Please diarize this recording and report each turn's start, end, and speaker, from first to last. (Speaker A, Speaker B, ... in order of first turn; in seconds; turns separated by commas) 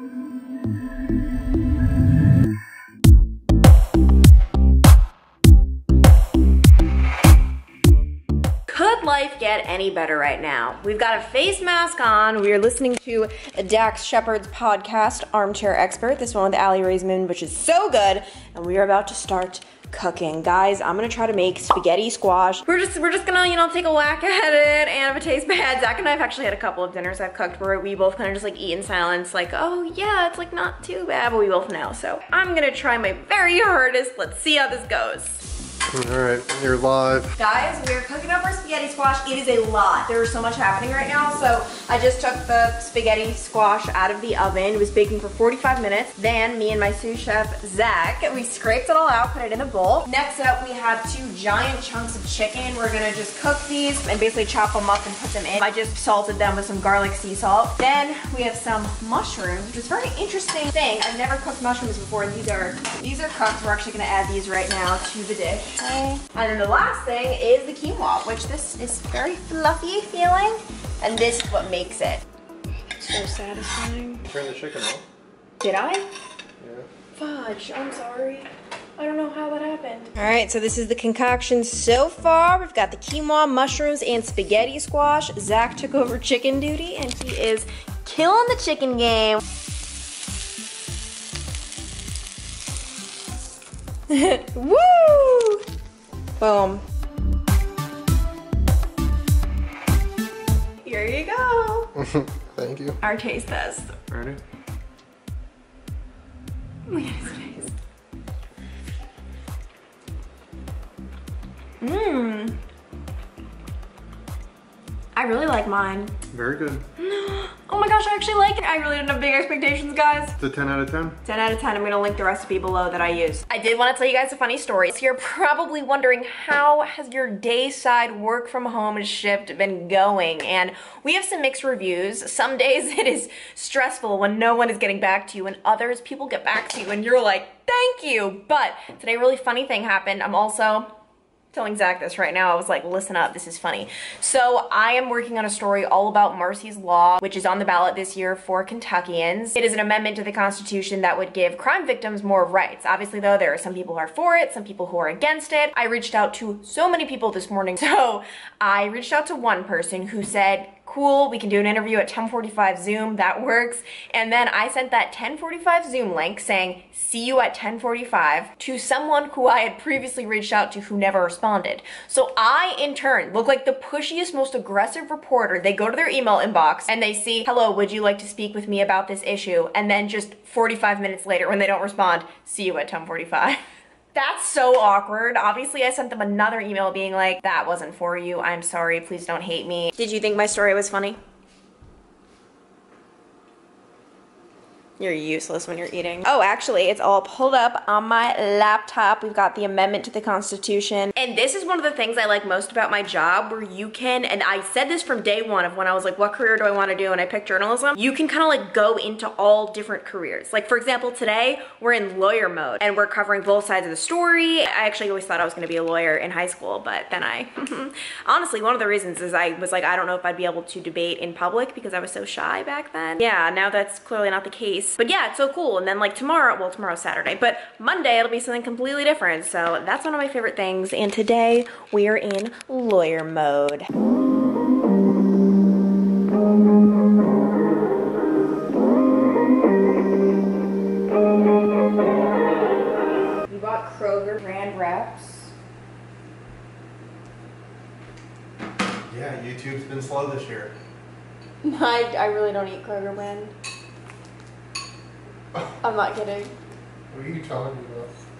Speaker A: 8.7-35.4, Speaker B: 35.9-37.3, Speaker A: 37.4-72.2, Speaker A: 72.9-74.2, Speaker B: 74.3-75.0, Speaker A: 75.6-76.1, Speaker B: 76.6-76.9, Speaker A: 77.2-89.4, Speaker A: 94.1-95.6, Speaker A: 96.4-96.8, Speaker A: 100.8-101.9, Speaker B: 101.9-103.0, Speaker A: 103.0-103.9, Speaker B: 104.1-104.4, Speaker A: 106.9-107.7, Speaker A: 111.8-112.6, Speaker A: 115.1-116.1, Speaker B: 116.3-116.8, Speaker A: 117.0-120.3, Speaker B: 120.4-121.2, Speaker A: 121.2-140.9, Speaker A: 141.5-183.6, Speaker A: 184.1-191.2, Speaker A: 195.0-233.9, Speaker A: 243.5-245.5, Speaker B: 249.1-250.7, Speaker A: 251.6-253.5, Speaker A: 255.8-256.5, Speaker B: 257.1-258.1